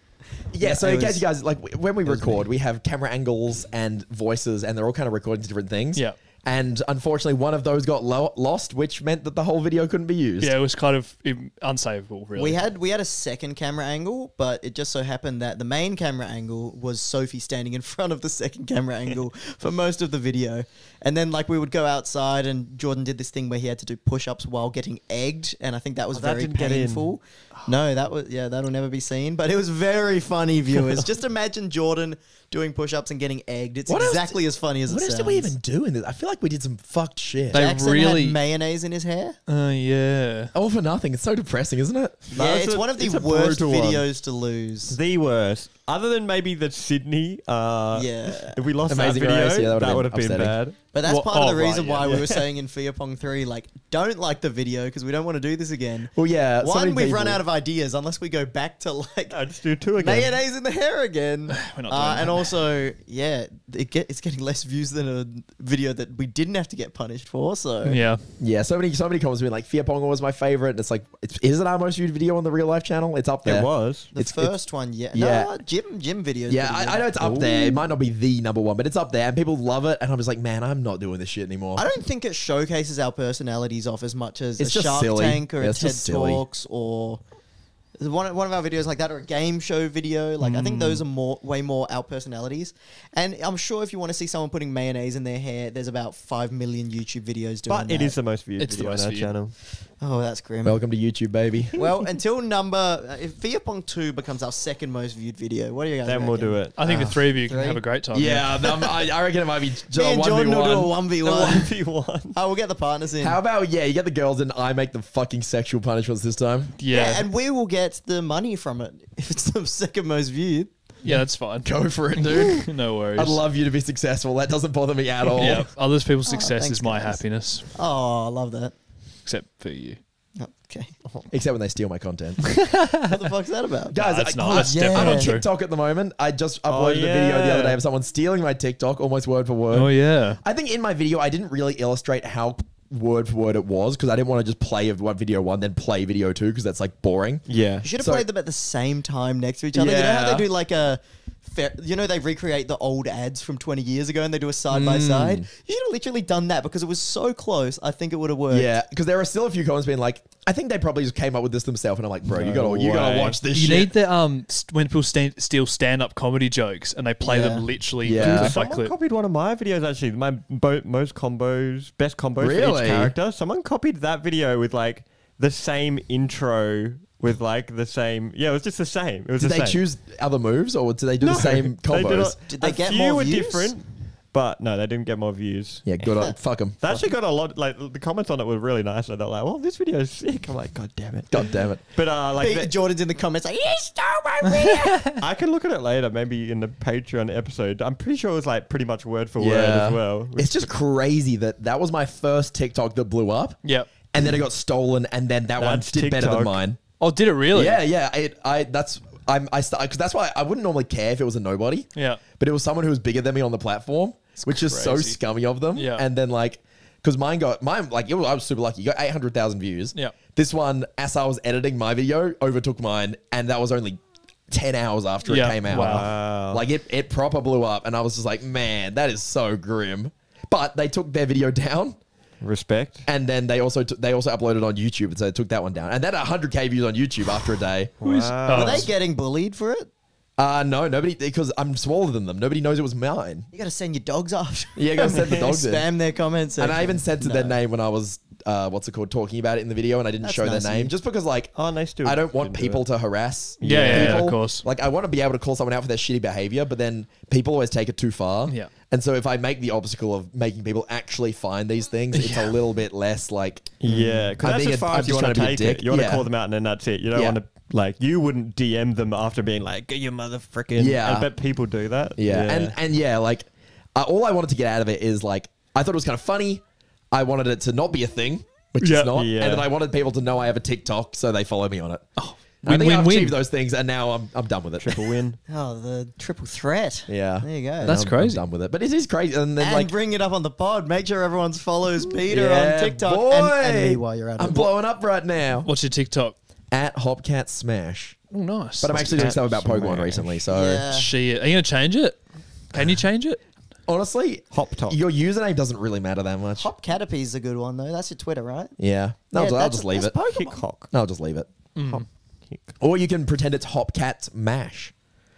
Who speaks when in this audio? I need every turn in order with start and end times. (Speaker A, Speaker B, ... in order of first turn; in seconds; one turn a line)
Speaker A: 0.5-10.5
Speaker B: 0.6-1.2
Speaker B: 2.1-2.4
Speaker C: 10.4-12.6
Speaker B: 12.4-35.5
Speaker D: 26.1-27.7
Speaker A: 33.9-37.6
Speaker C: 37.5-38.4
Speaker B: 37.5-39.4
Speaker C: 39.5-40.5
Speaker A: 40.5-42.2
Speaker D: 42.3-44.1
Speaker B: 42.3-45.0
Speaker D: 44.9-50.8
Speaker B: 47.9-48.6
Speaker A: 48.9-50.6
Speaker B: 50.9-59.4
Speaker C: 50.9-52.0
Speaker D: 52.0-52.5
Speaker A: 56.1-57.4
Speaker D: 59.3-60.4
Speaker B: 60.0-68.0
Speaker C: 61.5-62.5
Speaker C: 67.8-68.2
Speaker A: 68.4-74.5
Speaker D: 73.4-74.1
Speaker B: 74.1-77.1
Speaker A: 75.1-75.5
Speaker A: 76.5-81.8
Speaker D: 77.2-77.7
Speaker B: 81.8-87.2
Speaker A: 84.6-86.4
Speaker B: 88.0-98.2
Speaker D: 90.4-91.0
Speaker D: 97.7-99.6
Speaker C: 98.6-99.4
Speaker B: 99.9-100.8
Speaker A: 100.6-101.7
Speaker B: 101.8-107.8
Speaker D: 106.0-106.8
Speaker C: 106.8-108.5
Speaker A: 108.1-110.9
Speaker B: 109.9-111.8
Speaker D: 111.2-112.4
Speaker B: 112.3-113.4
Speaker A: 113.2-116.7
Speaker C: 116.8-117.3
Speaker B: 116.9-120.7
Speaker C: 121.0-123.4
Speaker A: 121.1-125.7
Speaker C: 125.3-127.7
Speaker B: 125.4-125.7
Speaker B: 126.2-128.8
Speaker C: 129.2-130.0
Speaker B: 130.4-130.9
Speaker A: 131.3-132.6
Speaker C: 132.7-133.3
Speaker B: 133.1-135.4
Speaker A: 133.9-148.2
Speaker C: 134.0-135.5
Speaker D: 136.7-137.8
Speaker C: 139.7-140.4
Speaker D: 147.5-147.8
Speaker B: 147.8-158.8
Speaker A: 149.7-150.5
Speaker A: 154.7-155.5
Speaker A: 158.5-163.9
Speaker D: 162.3-163.4
Speaker C: 163.5-168.9
Speaker B: 167.2-167.7
Speaker A: 168.0-168.6
Speaker D: 168.2-179.8
Speaker A: 172.4-173.1
Speaker A: 179.4-182.4
Speaker D: 181.2-186.2
Speaker B: 182.5-183.8
Speaker A: 185.8-187.0
Speaker B: 186.1-186.4
Speaker D: 186.8-192.7
Speaker A: 191.3-192.0
Speaker B: 192.3-195.2
Speaker D: 195.2-200.7
Speaker A: 199.4-206.8
Speaker C: 203.6-203.9
Speaker D: 205.6-206.6
Speaker C: 207.0-207.8
Speaker A: 207.5-232.0
Speaker C: 211.9-212.2
Speaker C: 214.7-215.2
Speaker C: 215.7-216.0
Speaker C: 225.2-226.1
Speaker D: 225.7-226.7
Speaker D: 232.4-233.1
Speaker A: 233.1-238.0
Speaker D: 238.0-238.9
Speaker C: 238.1-238.9
Speaker B: 238.5-239.9
Speaker A: 240.4-243.5
Speaker B: 243.5-247.6
Speaker A: 244.8-245.9
Speaker D: 245.1-245.5
Speaker A: 246.6-266.3
Speaker B: 250.2-250.9
Speaker D: 251.6-252.9
Speaker D: 253.6-254.3
Speaker C: 253.6-254.7
Speaker C: 262.1-262.6
Speaker D: 263.8-272.8
Speaker A: 267.1-267.4
Speaker A: 270.8-271.3
Speaker A: 272.2-285.0
Speaker C: 278.8-279.2
Speaker D: 279.1-279.7
Speaker C: 282.2-283.4
Speaker D: 284.8-285.4
Speaker B: 285.5-288.0
Speaker A: 287.1-289.9
Speaker C: 287.8-288.4
Speaker B: 289.6-294.7
Speaker A: 292.3-295.7
Speaker C: 295.6-296.4
Speaker A: 296.7-298.2
Speaker C: 298.3-300.3
Speaker A: 298.8-300.9
Speaker D: 298.9-300.3
Speaker B: 300.5-301.1
Speaker C: 300.9-303.4
Speaker A: 303.9-306.7
Speaker D: 304.5-305.0
Speaker B: 306.6-308.7
Speaker A: 308.8-310.2
Speaker B: 309.3-310.6
Speaker D: 310.3-310.9
Speaker A: 310.9-311.5
Speaker C: 311.8-312.1
Speaker D: 311.9-312.7
Speaker A: 312.8-314.9